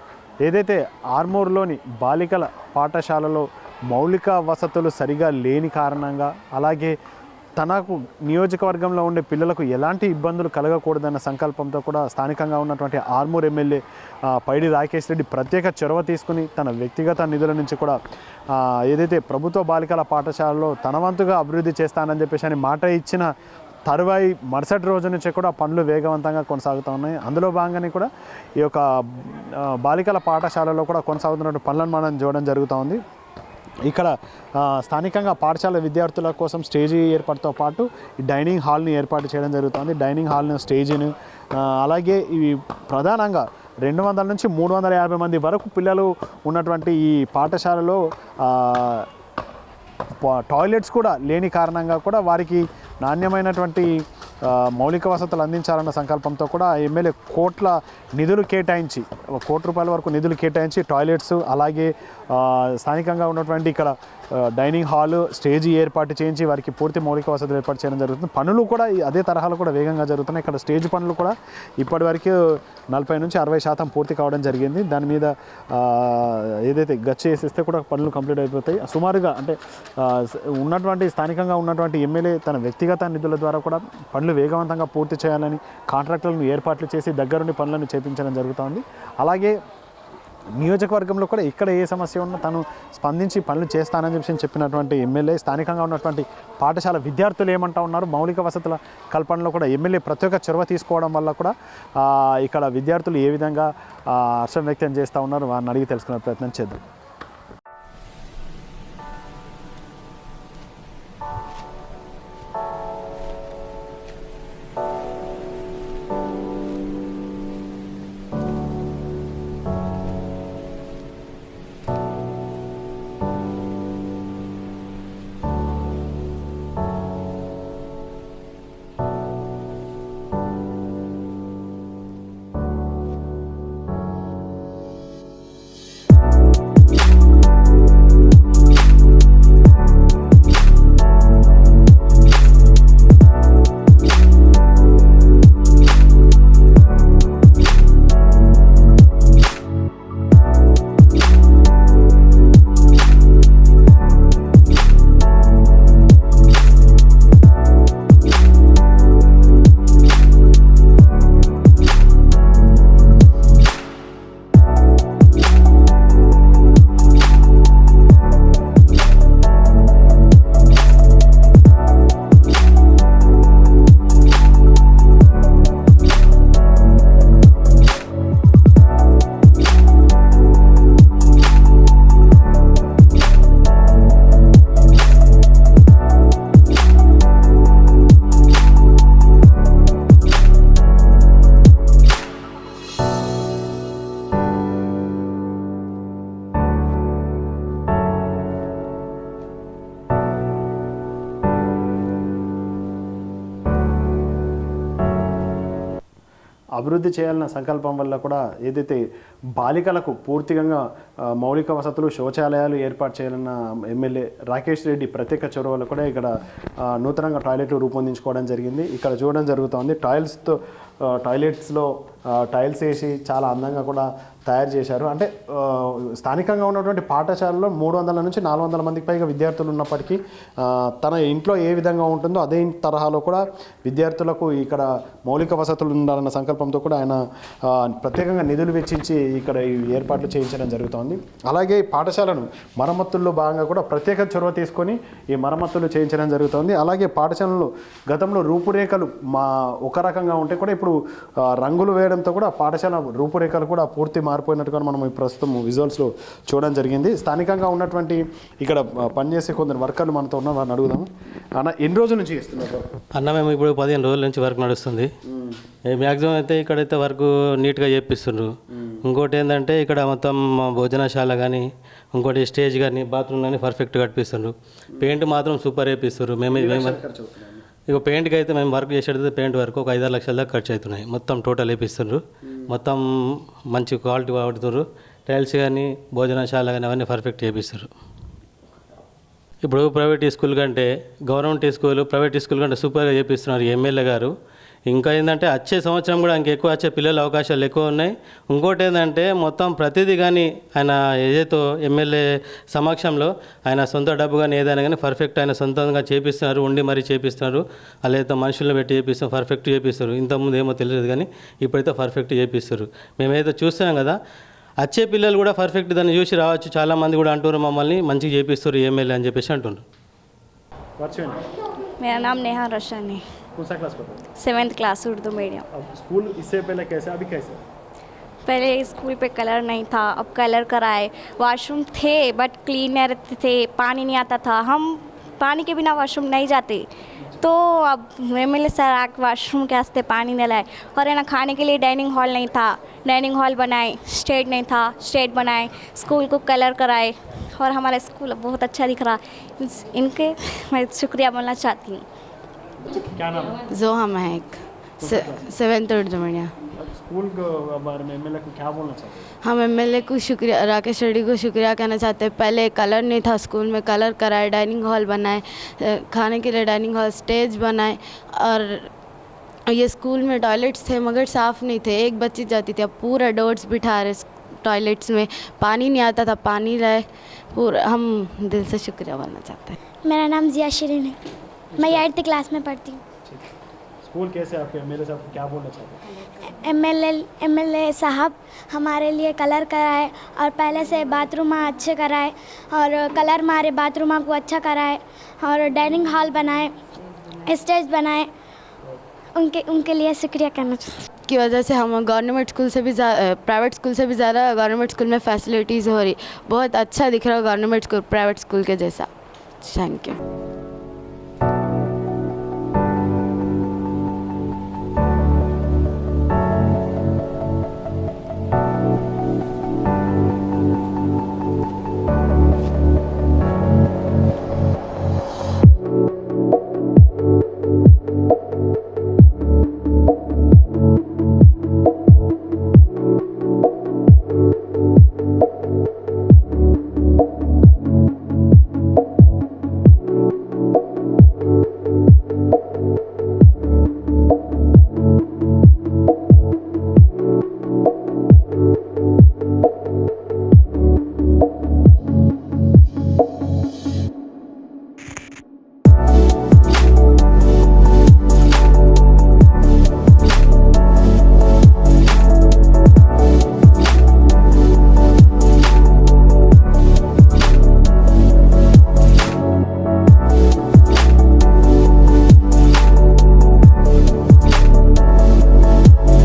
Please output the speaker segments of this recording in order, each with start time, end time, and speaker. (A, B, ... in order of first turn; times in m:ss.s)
0:00.4-0:07.0 A
0:07.6-0:13.8 A
0:14.3-0:18.0 A
0:18.6-0:23.3 A
0:23.9-0:33.0 A
0:33.8-0:49.1 A
0:50.2-1:12.3 A
1:12.9-1:29.5 A
1:30.6-1:46.8 A
3:26.8-3:29.0 A
3:29.6-3:30.8 A
3:31.4-3:36.3 A
3:36.9-3:40.6 A
3:41.1-4:11.0 A
4:11.5-4:22.9 A
4:23.1-4:25.1 B
4:25.3-4:25.6 A
4:25.9-4:28.5 B
4:29.0-4:37.0 B
4:36.5-4:37.6 A
4:37.9-4:43.0 B
4:43.7-4:47.9 B
4:49.6-4:54.3 B
4:54.9-5:14.2 B
5:14.8-5:19.8 B
5:21.0-5:21.4 A
5:22.0-5:23.2 C
5:23.6-5:24.2 A
5:24.4-5:25.6 C
5:25.7-5:27.6 A
5:28.4-5:36.8 C
5:37.4-5:52.0 C
5:52.9-5:53.6 A
5:53.7-5:56.5 D
5:55.0-5:55.4 A
5:56.8-5:59.3 A
5:59.4-6:08.9 D
6:09.7-6:19.8 D
6:20.1-6:21.1 E
6:21.7-6:22.0 A
6:21.8-6:23.0 E
6:24.0-6:26.1 A
6:26.7-6:36.7 E
6:37.5-6:38.3 E
6:39.4-6:41.0 E
6:41.3-6:49.1 D
6:49.6-6:50.2 D